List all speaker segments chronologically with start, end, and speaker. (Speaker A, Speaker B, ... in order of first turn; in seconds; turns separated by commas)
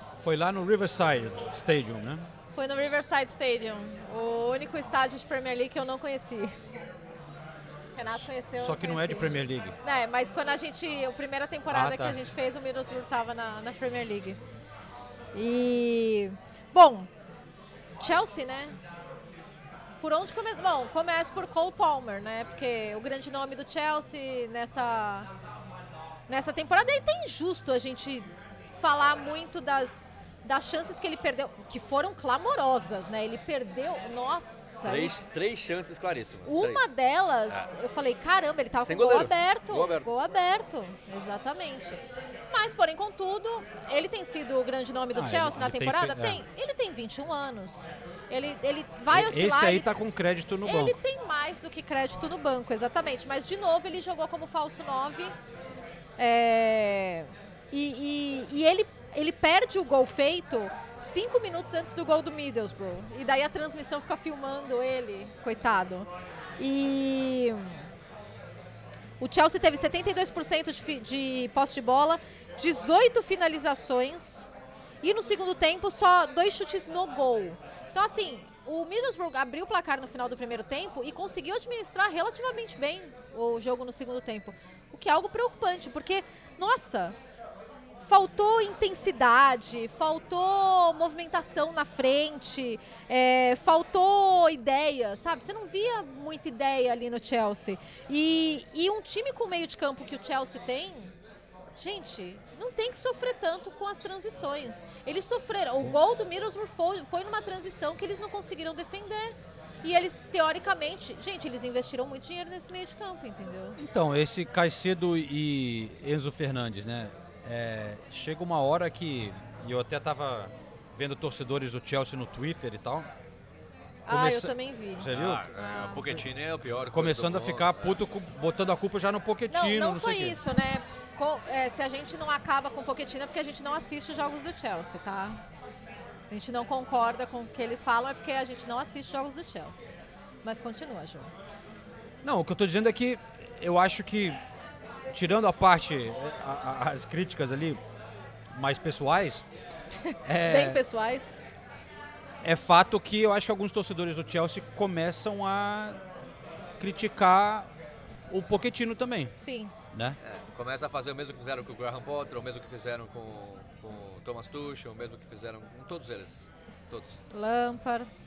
Speaker A: 0.2-2.3, Speaker B: 2.5-6.5, Speaker B: 7.9-14.4, Speaker A: 8.1-9.7, Speaker A: 11.7-12.2, Speaker B: 15.3-17.1, Speaker B: 18.0-18.8, Speaker B: 20.0-25.3, Speaker B: 26.3-35.1, Speaker C: 34.8-36.9, Speaker B: 36.5-49.9, Speaker C: 38.9-40.1, Speaker A: 45.1-46.4, Speaker A: 49.1-51.0, Speaker B: 50.6-55.3, Speaker B: 56.2-67.8, Speaker B: 69.2-74.5, Speaker B: 75.0-87.2, Speaker B: 88.0-101.1, Speaker B: 101.8-113.8, Speaker A: 113.8-123.1, Speaker B: 124.1-126.2, Speaker A: 124.1-125.5, Speaker C: 125.1-128.0, Speaker A: 126.9-130.4, Speaker B: 129.5-135.4, Speaker B: 136.3-139.9, Speaker B: 140.4-141.3, Speaker A: 142.2-144.4, Speaker A: 145.1-147.8, Speaker A: 148.5-149.4, Speaker B: 150.1-151.4, Speaker A: 150.2-150.8, Speaker A: 152.4-156.0, Speaker A: 156.8-157.7, Speaker A: 158.3-159.3, Speaker B: 159.4-159.7, Speaker A: 159.9-160.2, Speaker C: 160.2-167.2, Speaker B: 167.3-168.1